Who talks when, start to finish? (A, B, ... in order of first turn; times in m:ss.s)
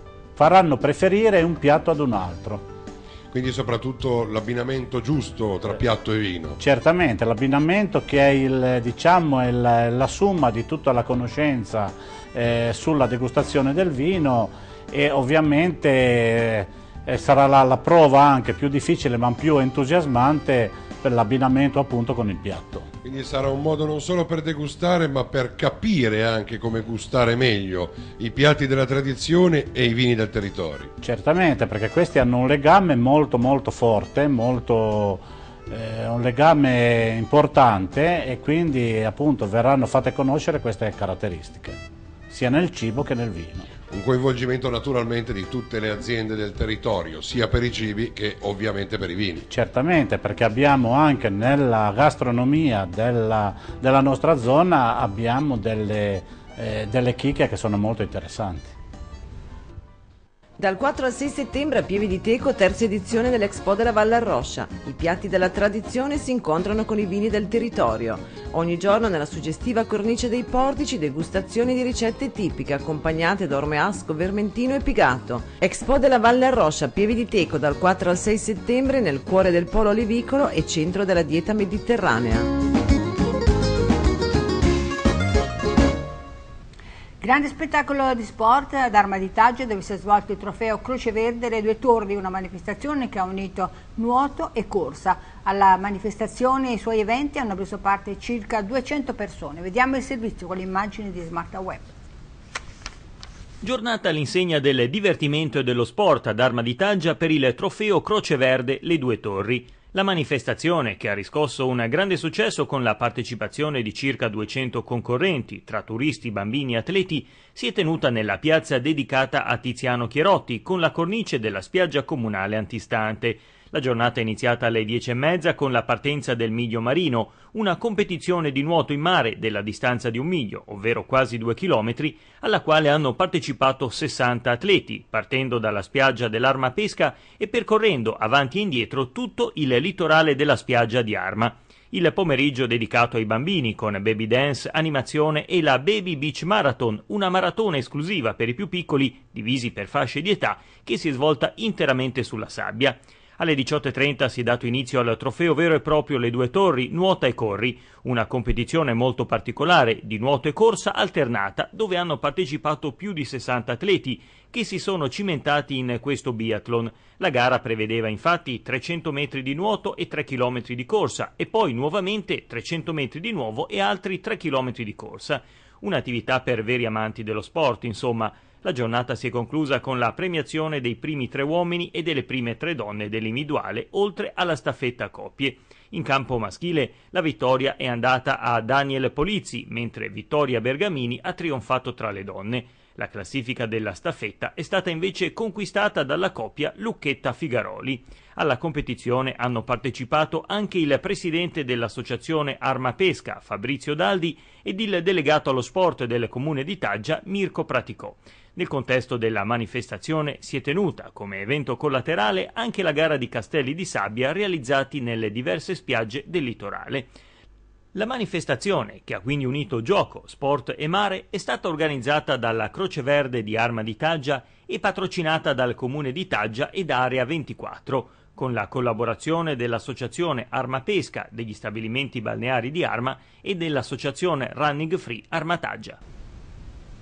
0:00.4-0:02.7 A
0:03.3-0:06.6 B
0:06.6-0:22.9 A
0:23.0-0:30.9 B
0:31.0-0:41.8 A
0:42.3-0:43.7 A
0:43.9-0:49.4 B
0:49.5-0:58.7 A
1:00.6-1:22.5 C
1:27.2-1:41.9 D
1:43.6-3:37.1 E
3:37.9-3:56.0 E